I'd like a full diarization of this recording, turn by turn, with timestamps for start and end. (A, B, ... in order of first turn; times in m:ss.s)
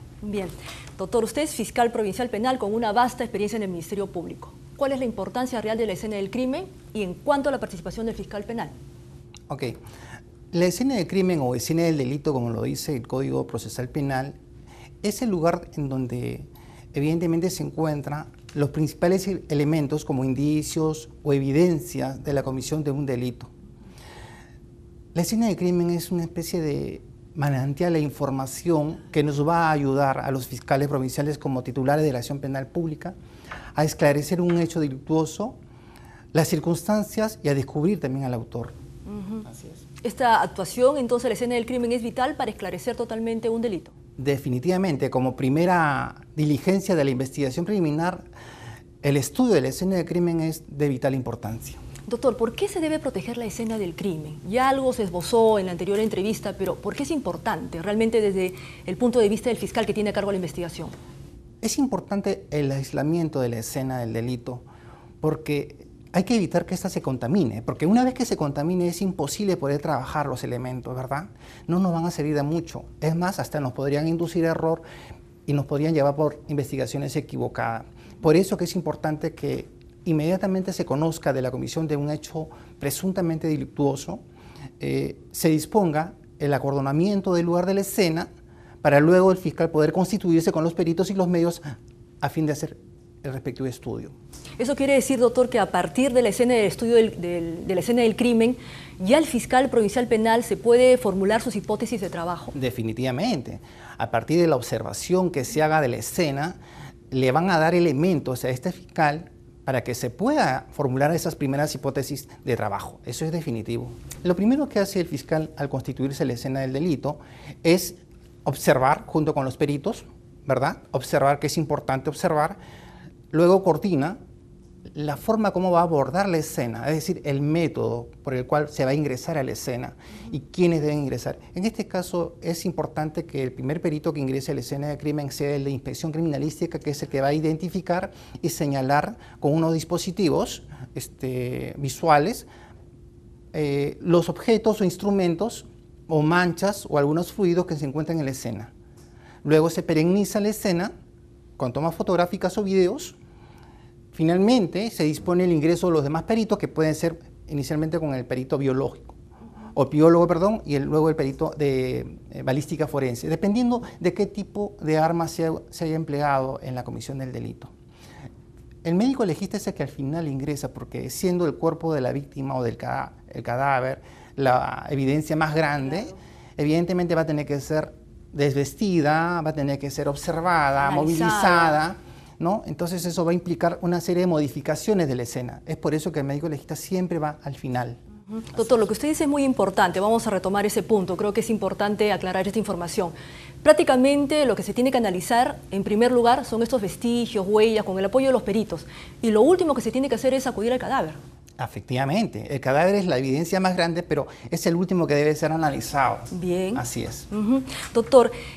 0:00.2-0:08.7 A
0:09.5-0:09.8 B
0:10.5-0:14.4 B
0:15.0-0:23.5 B
0:25.1-0:33.1 B
0:33.8-0:35.6 B
0:36.3-0:38.7 B
0:39.1-0:39.4 A
0:39.4-0:39.8 B
0:40.0-0:43.9 A
0:44.2-0:48.3 B
0:49.0-0:51.8 B
0:52.1-1:01.0 A
1:01.6-1:04.6 B
1:05.2-1:14.8 B
1:15.4-1:24.2 B
1:24.8-1:28.3 B
1:28.8-1:34.1 B
1:34.6-1:42.5 A
1:42.6-1:46.6 B
1:47.1-2:02.6 B
2:03.3-2:04.2 B
2:04.9-2:22.5 B
2:23.5-2:28.7 B
2:29.4-2:30.9 B
2:31.6-2:33.2 B
2:34.1-2:39.2 B
2:39.7-2:47.7 B
2:48.8-3:08.0 B
3:00.8-3:01.8 A
3:08.3-3:21.2 A
3:21.6-3:27.3 B
3:26.3-3:28.3 A